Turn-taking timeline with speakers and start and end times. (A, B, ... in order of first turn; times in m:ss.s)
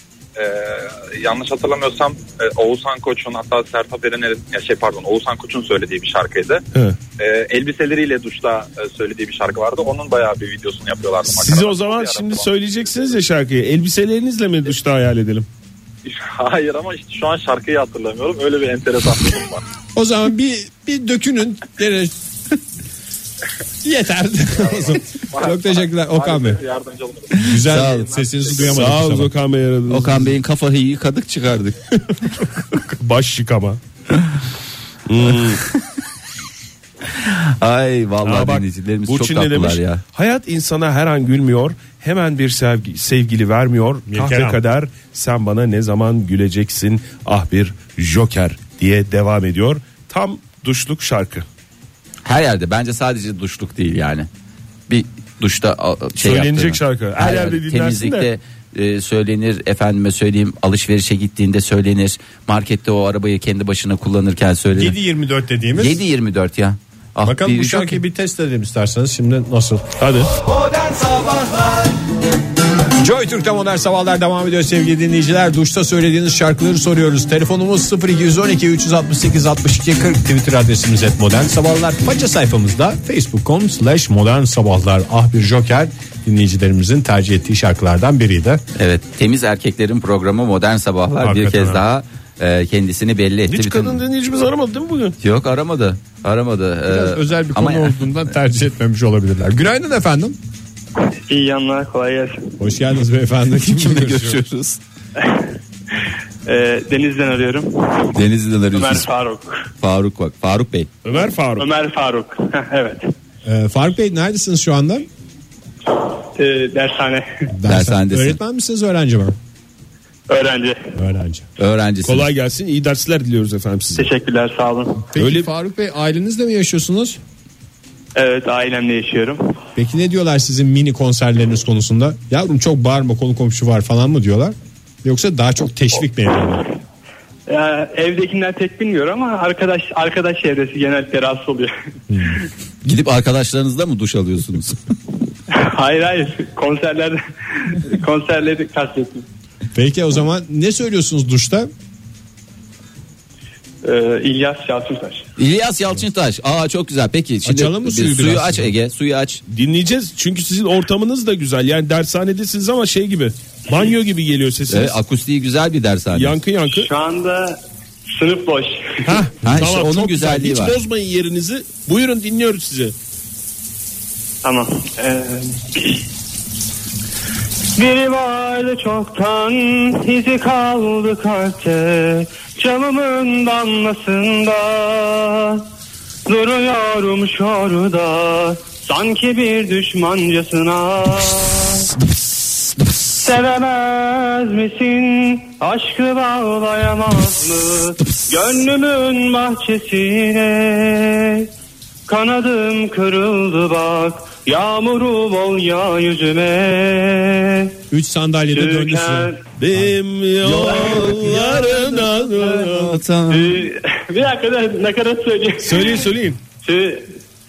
0:00.4-0:06.6 A
0:07.2-0:12.5 A
0:11.3-0:15.5 B
0:16.0-0:19.6 A
0:19.9-0:22.2 C
0:23.8-0:26.6 C
0:24.5-0:28.8 A
0:27.4-0:29.3 C
0:27.6-0:28.1 D
0:28.6-0:30.4 B
0:29.9-0:31.8 D
0:33.0-0:33.8 B
0:35.1-0:35.6 B
0:37.2-0:40.0 D
0:38.2-0:51.4 B
0:44.1-0:44.6 C
0:52.2-0:54.3 D
0:54.9-1:05.0 D
0:56.2-0:58.3 B
1:04.7-1:06.0 C
1:05.8-1:08.0 D
1:07.2-1:09.8 C
1:10.0-1:10.3 B
1:10.8-1:11.4 D
1:13.0-1:28.6 C
1:28.8-1:34.0 D
1:31.2-1:31.8 C
1:33.5-1:35.2 B
1:35.2-1:38.0 D
1:36.9-1:40.4 C
1:41.1-1:42.5 E
1:42.6-1:44.4 C
1:43.6-1:44.8 D
1:46.4-1:48.1 E
1:48.1-1:49.1 D
1:48.7-1:49.6 E
1:49.8-1:50.9 D
1:51.0-1:51.7 B
1:51.6-1:53.1 E
1:53.4-1:55.1 C
1:56.4-1:57.3 E
1:57.6-1:59.4 C
1:57.7-1:58.4 D
2:00.3-2:00.9 E
2:01.0-2:01.4 C
2:01.6-2:02.3 D
2:02.0-2:04.1 B
2:03.9-2:05.1 E
2:05.1-2:07.2 C
2:05.2-2:05.5 B
2:08.2-2:09.5 E
2:09.8-2:16.6 C
2:17.5-2:21.7 E
2:22.1-2:22.4 C
2:22.8-2:24.8 D
2:25.5-2:27.2 E
2:27.7-2:29.2 E
2:29.7-2:31.7 C
2:33.8-2:35.2 E
2:35.4-2:39.4 D
2:37.4-2:38.7 C
2:39.5-2:45.0 B
2:44.7-2:46.4 D
2:46.1-2:46.9 B
2:46.7-2:47.6 E
2:48.1-2:49.2 E
2:49.0-2:52.9 B
2:49.4-2:50.8 D
2:54.4-2:56.0 E
2:57.8-3:05.6 E
3:06.3-3:11.9 E
3:13.2-3:21.5 E
3:22.1-3:27.7 E
3:27.9-3:29.3 C
3:28.5-3:29.4 E
3:29.6-3:33.0 B
3:30.4-3:31.8 E
3:32.7-3:33.6 D
3:33.3-3:36.1 E
3:35.6-3:36.4 B
3:36.6-3:37.1 E